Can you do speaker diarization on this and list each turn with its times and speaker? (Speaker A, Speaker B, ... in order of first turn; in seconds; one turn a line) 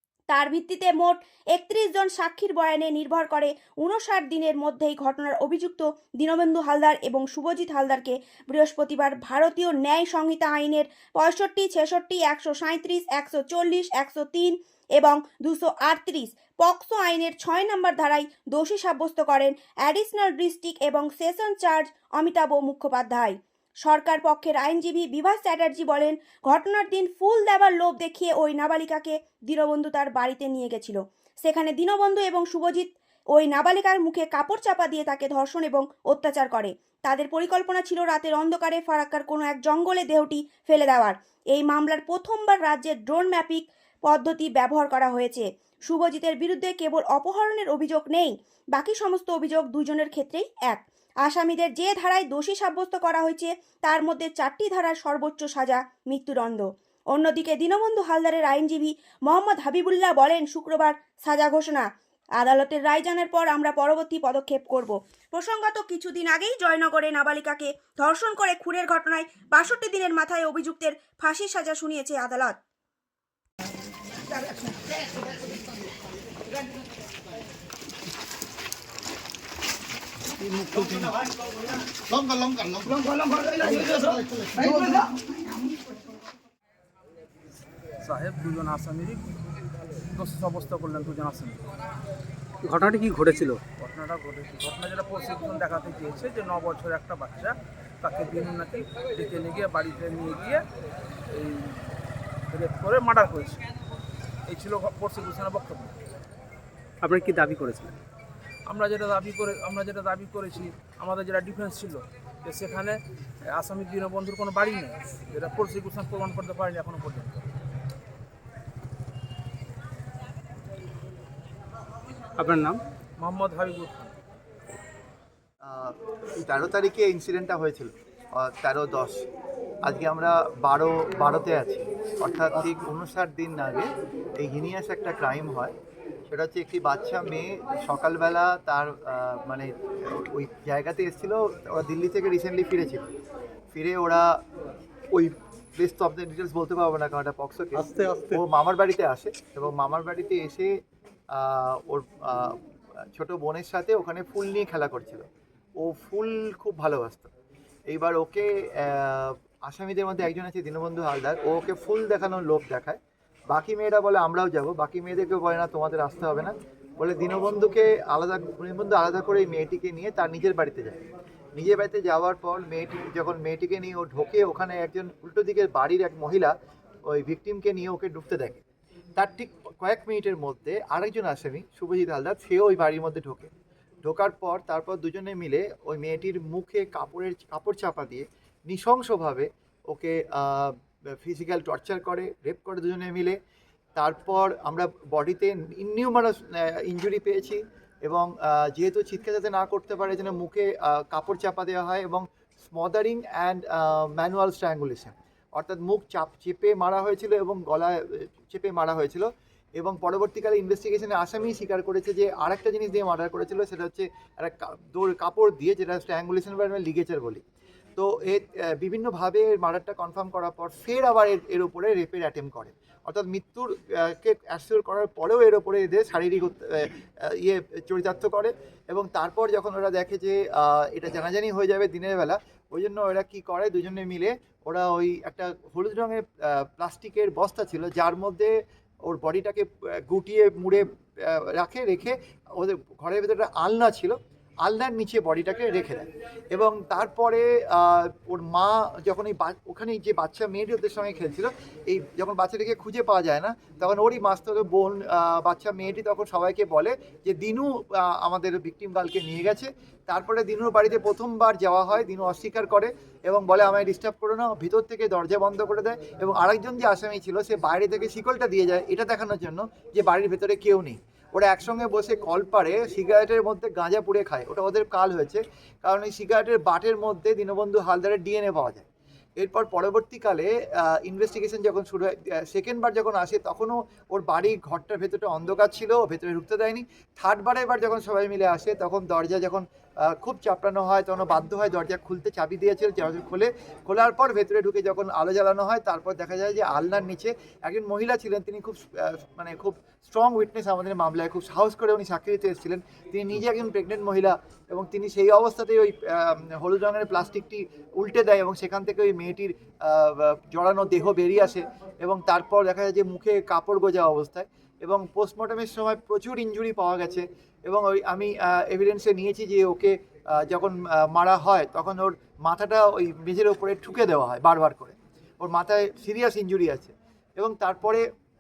Speaker A: 0.3-72.6
Speaker B: 80.5-81.0
Speaker C: 80.6-81.1
Speaker B: 83.5-85.0
Speaker C: 88.0-89.3
Speaker C: 90.1-91.6
Speaker B: 92.6-93.6
Speaker C: 93.7-100.6
Speaker C: 101.3-101.9
Speaker C: 102.5-103.6
Speaker C: 104.5-105.9
Speaker B: 107.0-108.0
Speaker C: 108.7-117.5
Speaker B: 122.4-122.8
Speaker C: 123.2-124.1
Speaker D: 125.6-129.3
Speaker D: 129.8-135.7
Speaker D: 136.3-143.1
Speaker D: 143.7-144.4
Speaker D: 145.1-150.7
Speaker B: 147.9-148.3
Speaker D: 151.3-155.2
Speaker D: 155.8-157.3
Speaker D: 157.9-163.0
Speaker D: 163.5-171.0
Speaker D: 171.6-176.5
Speaker D: 177.1-178.6
Speaker D: 179.2-183.5
Speaker D: 184.0-193.4
Speaker D: 194.0-217.4
Speaker D: 218.0-278.9
Speaker D: 279.4-328.1